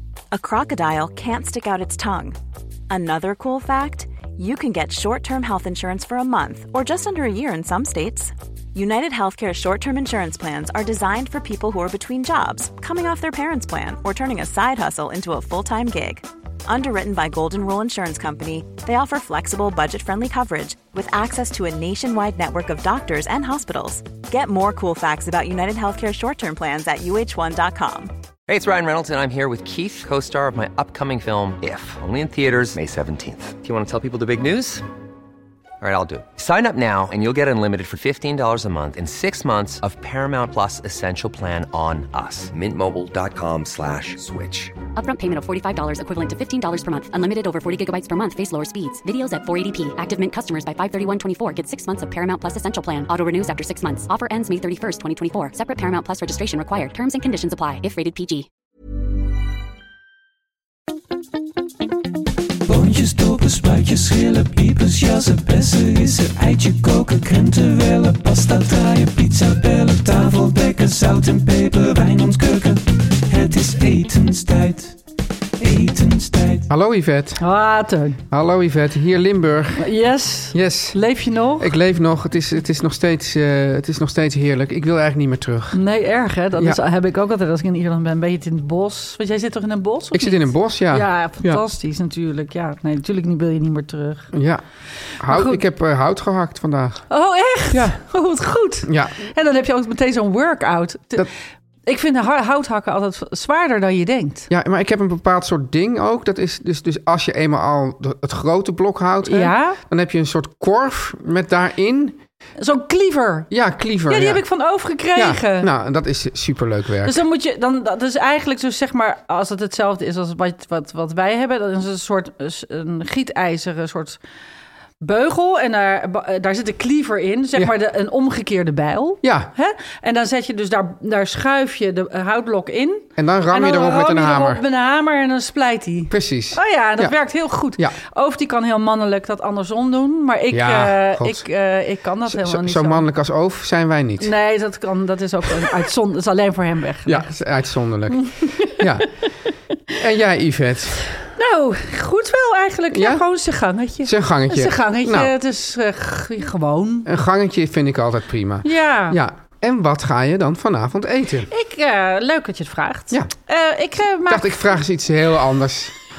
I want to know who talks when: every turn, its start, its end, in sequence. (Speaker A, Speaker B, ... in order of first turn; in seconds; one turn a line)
Speaker A: 0.3-2.4
Speaker A: 2.9-28.1
Speaker B: 28.5-34.8
Speaker B: 35.8-44.7
Speaker C: 45.0-58.5
Speaker D: 62.6-75.0
Speaker D: 75.6-76.7
Speaker E: 76.7-77.4
Speaker F: 77.4-78.2
Speaker E: 78.3-79.9
Speaker F: 79.8-81.7
Speaker E: 80.5-81.0
Speaker E: 81.6-85.8
Speaker F: 85.7-94.3
Speaker E: 90.1-91.6
Speaker E: 94.3-94.6
Speaker E: 95.2-97.0
Speaker F: 95.3-95.6
Speaker F: 97.1-101.3
Speaker E: 97.7-98.0
Speaker E: 98.8-99.2
Speaker F: 101.8-104.5
Speaker E: 104.5-112.2
Speaker F: 109.2-109.8
Speaker F: 112.6-113.5
Speaker E: 113.5-114.4
Speaker F: 114.1-115.7
Speaker E: 115.1-117.2
Speaker F: 117.0-124.2
Speaker F: 125.0-143.0
Speaker E: 129.2-129.5
Speaker E: 133.2-134.6
Speaker E: 136.1-137.1
Speaker E: 140.5-141.4
Speaker E: 142.3-144.3
Speaker F: 144.2-147.3
Speaker E: 147.1-149.1
Speaker F: 148.1-149.3
Speaker E: 149.9-151.1
Speaker F: 151.3-157.1
Speaker E: 152.9-153.2
Speaker E: 154.0-155.3
Speaker E: 157.0-161.5
Speaker F: 158.6-159.2
Speaker F: 161.5-164.8
Speaker E: 164.3-165.9